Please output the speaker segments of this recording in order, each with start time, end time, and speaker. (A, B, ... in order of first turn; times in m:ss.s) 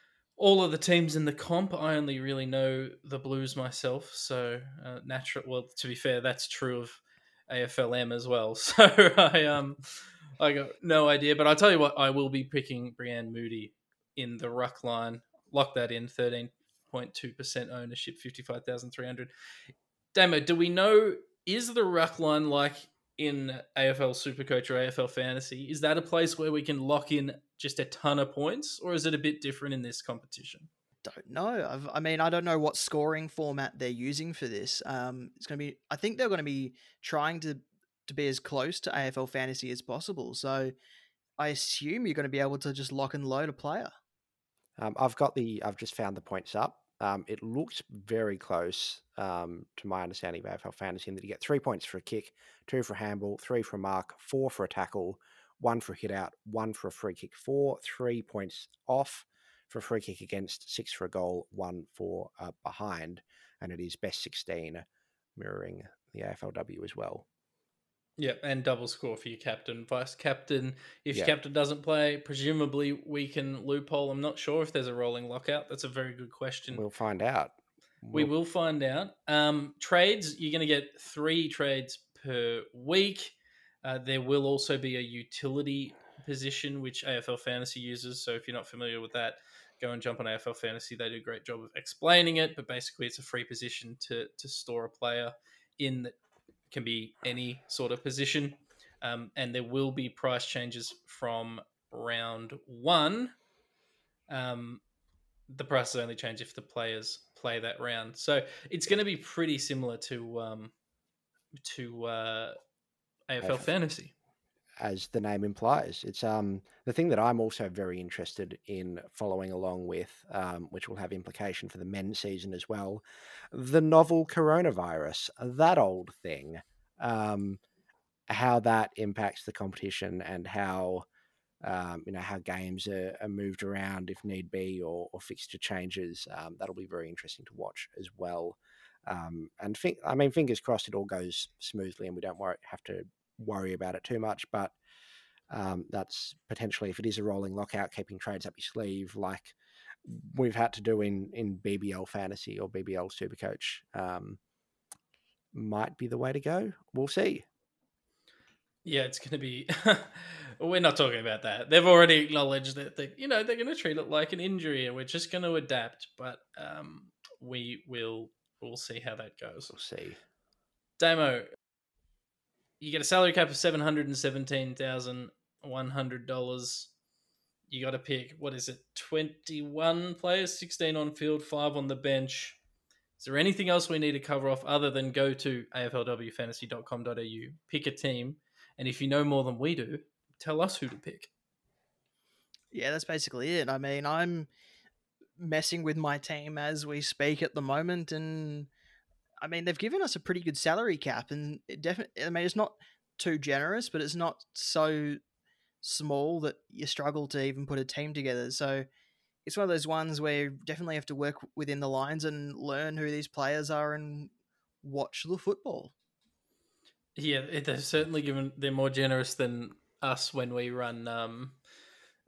0:00.4-0:19.3 A
0:20.1-0:30.7 A
0:31.0-0:40.7 B
0:41.4-0:43.9 B
0:44.8-1:04.8 C
1:05.4-1:07.2 C
1:08.2-1:16.8 A
1:16.7-1:18.3 C
1:18.1-1:36.1 A
1:36.7-1:43.3 A
1:44.3-1:44.8 A
1:45.5-1:50.7 A
1:51.6-1:52.6 A
1:53.3-1:54.1 A
1:53.4-1:53.7 C
1:54.8-2:07.6 C
2:08.3-2:11.0 C
2:11.6-2:24.8 C
2:25.5-2:34.4 C
2:35.5-2:37.4 C
2:38.8-2:49.7 A
2:49.7-2:50.2 C
2:51.0-2:51.5 A
2:52.8-2:56.9 A
2:57.7-3:02.6 A
3:03.2-3:11.3 A
3:12.7-3:14.5 B
3:15.4-3:18.7 B
3:19.4-3:25.2 B
3:25.8-3:28.8 B
3:29.4-3:34.3 B
3:34.8-3:35.9 B
3:37.2-3:41.6 A